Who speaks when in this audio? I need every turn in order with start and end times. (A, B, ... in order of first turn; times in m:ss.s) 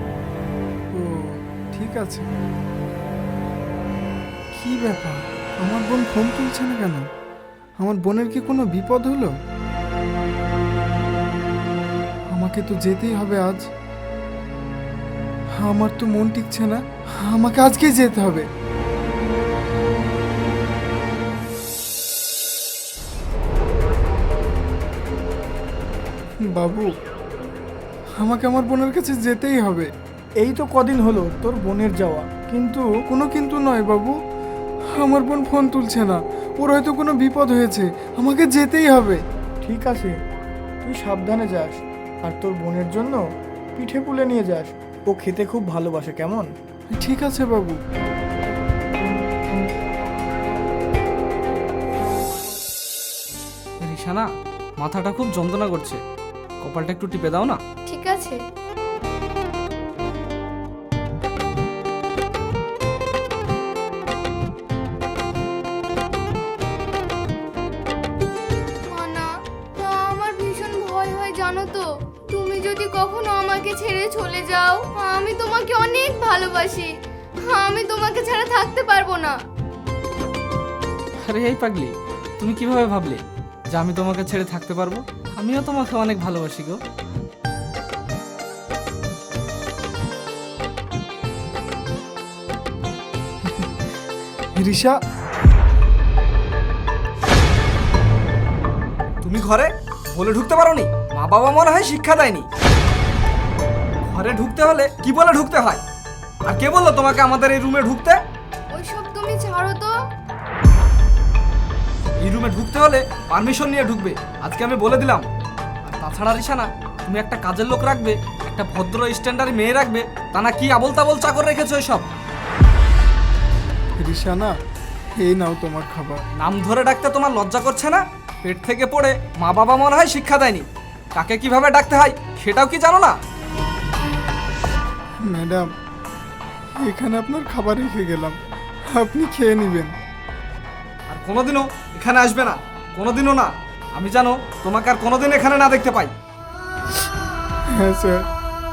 0:00.9-0:02.3 A
0:04.6-0:07.0 A
0:07.8-0:09.3 A
0:12.3-0:13.6 A
0:15.6-0:18.5 A
0:26.5-0:26.9 A
0:28.2-0:29.9 A
0:30.4-0:32.9 B
0:33.1-0:34.2 A
0:34.9-0:39.2 A
0:39.6-0:40.1 B
0:40.8-0:43.2 B
0:43.7-0:46.5 B
0:46.9-0:47.8 A
0:53.8-0:56.0 C
0:56.6-0:57.6 C
0:57.9-0:58.4 D
1:08.8-1:16.9 D
1:17.5-1:19.3 D
1:21.2-1:26.8 C
1:33.4-1:33.7 A
1:34.6-1:35.0 A
1:39.2-1:42.5 C
1:44.1-1:45.8 C
1:46.5-1:48.2 C
1:48.7-1:49.9 D
1:52.2-1:55.2 C
1:55.8-2:02.0 C
2:04.0-2:04.5 A
2:05.2-2:06.2 A
2:06.4-2:13.2 C
2:15.3-2:15.7 A
2:16.8-2:18.4 A
2:18.9-2:19.9 A
2:21.1-2:26.1 C
2:27.7-2:28.3 A